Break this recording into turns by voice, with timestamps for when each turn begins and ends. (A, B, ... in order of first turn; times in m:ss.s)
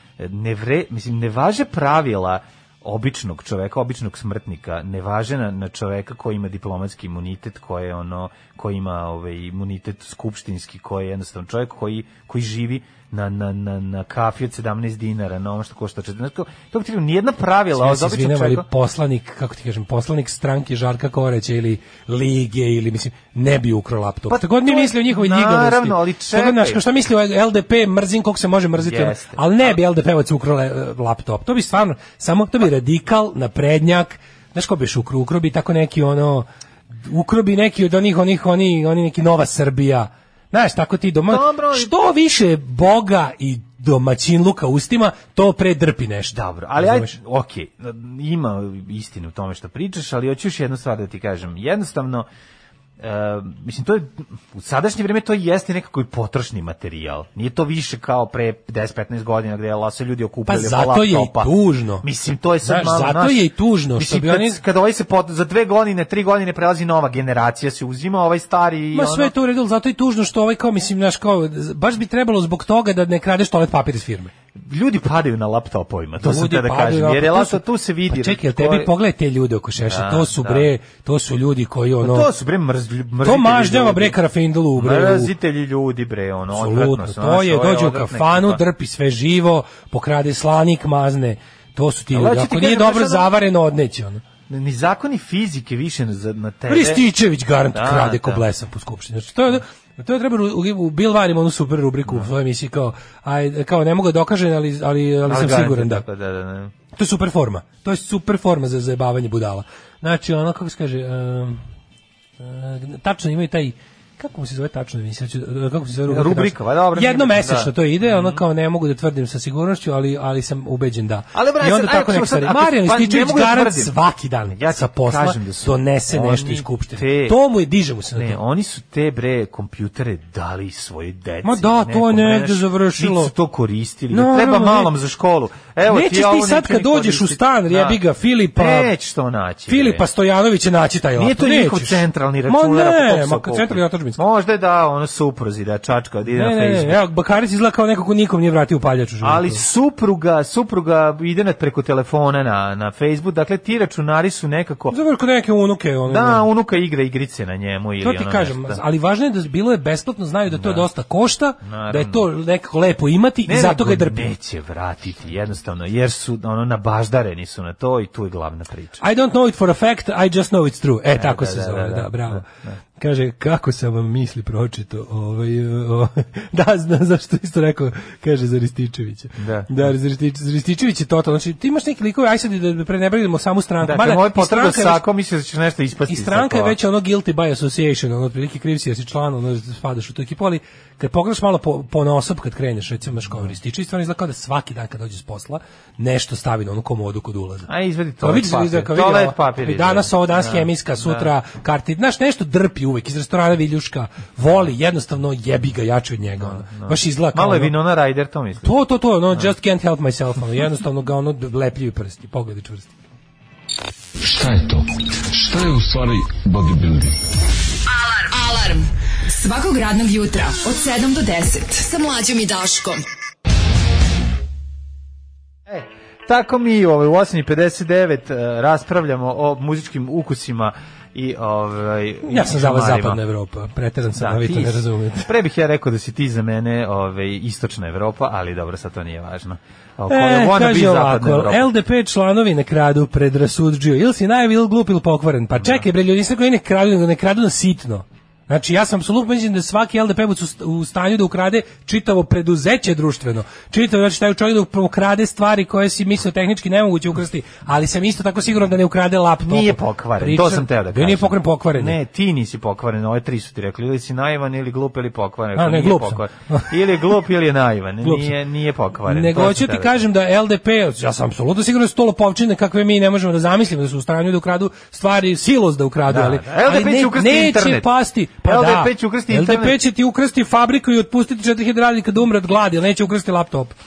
0:00.2-0:18.6 A
0:17.8-0:36.4 B
0:24.3-0:26.8 A
0:28.8-0:29.8 A
0:37.0-0:47.1 B
0:41.3-0:41.9 A
0:46.3-0:52.3 A
0:53.0-1:09.3 A
1:00.5-1:02.0 B
1:02.6-1:04.6 B
1:08.9-1:14.3 B
1:14.5-1:18.9 A
1:16.2-1:22.3 B
1:19.8-1:20.7 A
1:22.0-1:24.2 A
1:23.2-1:25.3 B
1:24.7-1:28.6 A
1:26.5-1:34.2 B
1:32.1-1:33.4 A
1:34.5-1:37.0 A
1:36.7-1:46.0 B
1:37.7-1:38.4 A
1:42.0-1:42.3 A
1:45.2-1:46.7 A
1:46.9-1:51.6 B
1:52.4-2:08.4 B
1:56.1-1:58.4 A
2:01.3-2:03.9 A
2:04.5-2:07.4 A
2:08.1-2:18.0 A
2:11.4-2:13.3 B
2:14.1-2:14.9 B
2:15.9-2:18.9 B
2:18.5-2:20.0 A
2:19.7-2:24.2 B
2:21.2-2:27.0 A
2:26.3-2:29.6 B
2:29.2-2:35.0 A
2:34.9-2:36.5 B
2:36.1-2:38.8 A
2:38.0-2:44.3 B
2:40.5-2:40.9 A
2:41.6-2:42.3 A
2:43.4-2:49.0 A
2:49.0-2:52.4 B
2:51.1-2:52.8 A
2:53.0-3:05.0 B
2:59.4-2:59.8 A
3:03.8-3:06.8 A
3:06.1-3:17.7 B
3:17.7-3:21.3 A
3:18.2-3:27.7 B
3:26.4-3:28.7 A
3:28.6-3:32.9 B
3:34.2-3:34.8 C
3:35.3-3:37.1 C
3:37.9-3:43.0 D
3:45.7-3:53.2 A
3:52.2-3:55.3 B
3:54.1-4:01.7 A
4:00.1-4:22.0 B
4:05.6-4:05.8 A
4:19.4-4:30.0 A
4:25.6-4:26.8 B
4:28.0-4:28.4 B
4:29.0-4:43.8 B
4:36.1-4:37.9 A
4:38.4-4:39.8 A